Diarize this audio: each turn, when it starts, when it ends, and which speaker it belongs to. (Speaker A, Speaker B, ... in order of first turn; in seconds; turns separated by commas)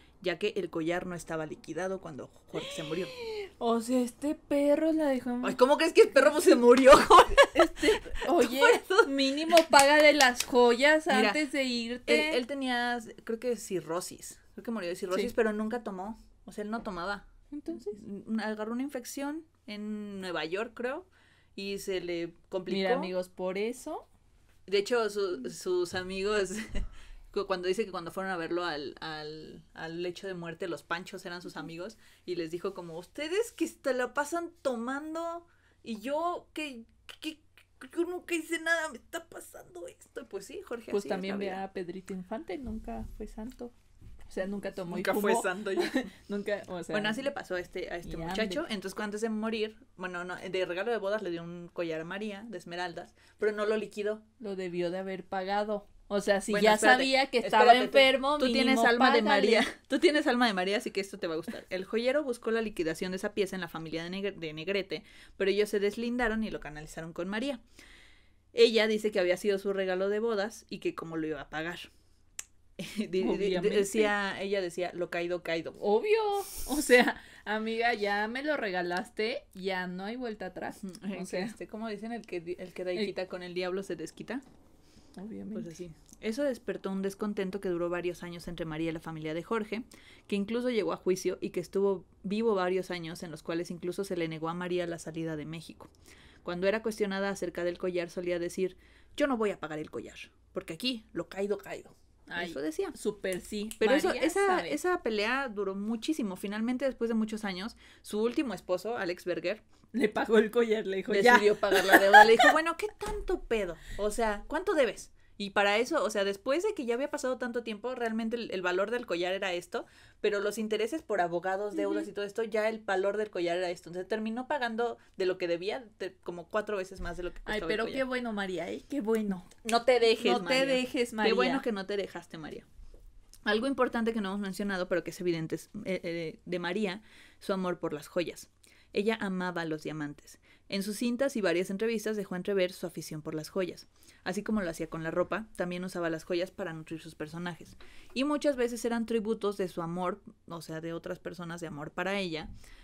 Speaker A: 0.2-3.1, Speaker B: 2.6-5.6, Speaker A: 5.4-9.6, Speaker B: 7.5-12.4, Speaker A: 11.1-11.4, Speaker A: 12.1-23.1, Speaker B: 17.5-18.0, Speaker B: 22.7-24.1, Speaker A: 24.7-41.6, Speaker B: 40.9-43.7, Speaker B: 44.3-47.3, Speaker A: 44.9-46.1, Speaker A: 46.9-54.2, Speaker B: 48.0-48.6, Speaker B: 54.4-59.6, Speaker A: 56.5-67.6, Speaker A: 68.5-71.9, Speaker A: 72.8-75.8, Speaker B: 73.2-74.1, Speaker B: 75.8-81.5, Speaker A: 80.8-84.4, Speaker B: 85.2-85.7, Speaker A: 85.5-95.9, Speaker A: 96.4-102.9, Speaker B: 102.3-104.8, Speaker A: 103.8-109.6, Speaker B: 109.9-112.5, Speaker A: 111.1-128.0, Speaker B: 127.5-131.6, Speaker A: 129.6-132.7, Speaker A: 133.4-152.5